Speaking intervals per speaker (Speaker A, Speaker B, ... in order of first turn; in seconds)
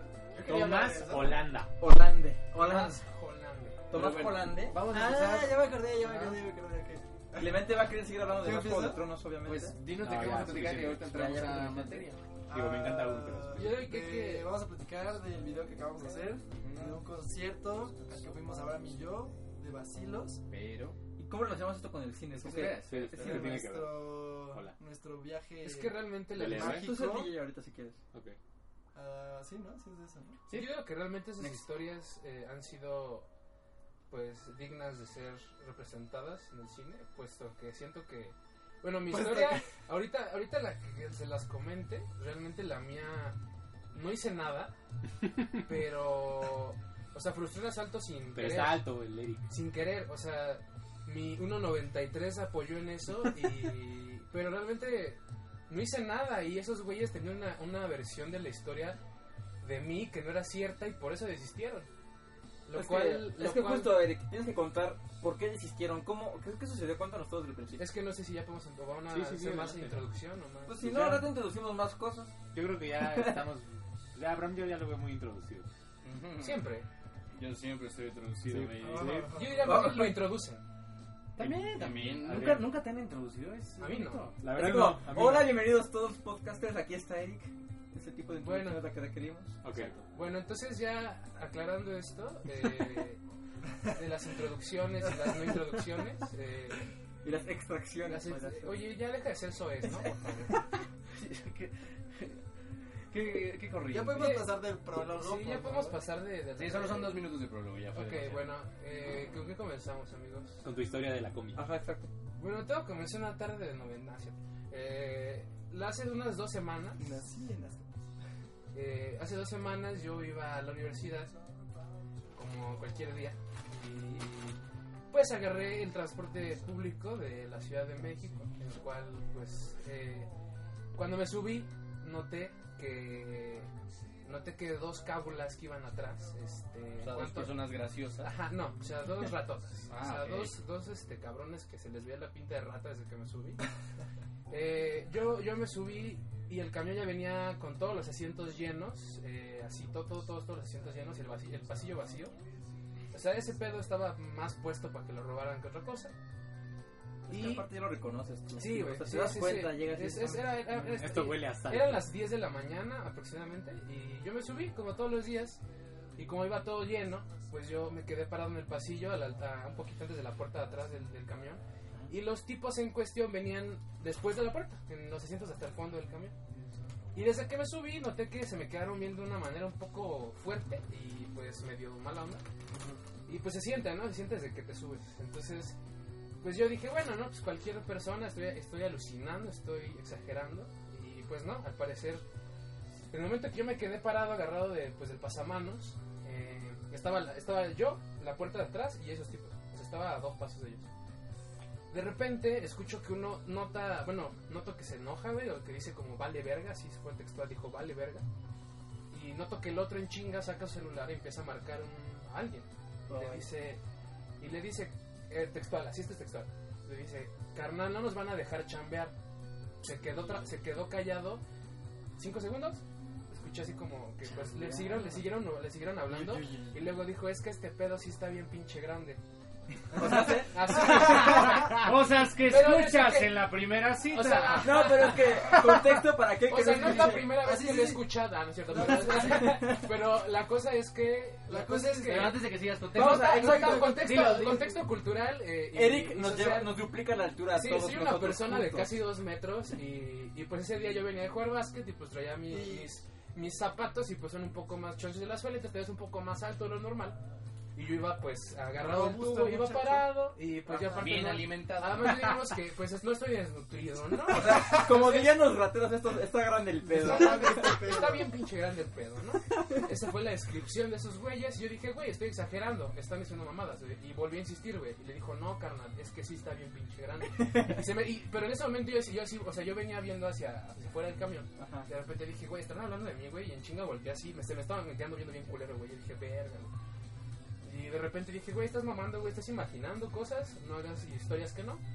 Speaker A: 0.4-1.5, 4.9-9.1, 12.5-20.4, 23.2-27.3, 28.9-30.4, 39.1-39.6, 78.8-79.9, 103.9-106.0, 117.0-117.9, 236.9-238.1, 238.7-239.3, 241.5-242.6, 252.5-252.9, 258.7-260.1, 260.7-261.2, 266.8-268.3
Speaker B: 0.4-1.7, 9.9-11.2, 12.5-13.7, 22.8-24.8, 26.4-26.9, 45.2-45.6, 48.4-49.5, 69.1-70.1, 70.8-71.2, 72.5-75.7, 78.4-79.3, 81.4-82.9, 84.4-85.6, 89.6-90.1, 110.6-111.7, 160.7-162.1
Speaker C: 1.8-3.0, 3.9-4.8, 7.4-9.8, 11.0-12.1, 21.2-23.0, 26.5-28.0, 62.7-67.9, 70.7-73.5, 79.7-80.3, 84.5-89.9, 97.2-98.8, 111.5-112.1, 157.3-160.6, 226.1-226.7, 229.9-231.3, 234.6-237.4, 242.8-244.6, 245.7-249.1, 264.3-267.9, 277.4-277.8, 281.6-281.9
Speaker D: 2.5-3.9, 13.5-14.5, 25.6-26.8, 30.5-33.3, 34.1-43.4, 43.9-44.7, 45.6-48.9, 49.5-59.0, 59.6-61.9, 62.7-64.1, 67.8-71.2, 76.4-76.9, 79.3-80.6, 83.8-84.3, 88.4-88.8, 89.8-93.2, 93.8-96.8, 98.0-100.6, 104.1-107.2, 107.9-110.7, 112.4-117.1, 118.7-121.3, 122.3-124.6, 125.1-130.3, 130.9-133.7, 134.2-137.7, 138.2-143.7, 144.5-152.3, 153.1-156.2, 157.3-157.7, 158.6-165.6, 166.2-176.3, 177.1-182.4, 183.3-185.8, 186.4-192.2, 193.1-200.9, 201.9-208.3, 209.1-213.8, 214.4-219.1, 219.8-221.4, 222.2-229.2, 229.9-233.5, 234.1-246.8, 247.5-257.2, 257.8-265.4, 267.0-286.7, 287.6-291.8
Speaker E: 3.9-6.4, 9.4-12.2, 16.6-17.0, 20.5-21.0, 22.3-23.6, 30.5-30.8, 76.0-76.6, 77.3-79.3, 81.4-84.4, 101.1-102.4, 103.1-104.4, 106.6-108.5, 137.0-138.3, 139.9-140.6, 182.7-183.0, 213.1-213.5, 224.7-225.0, 230.8-234.9, 242.0-244.8, 260.9-262.5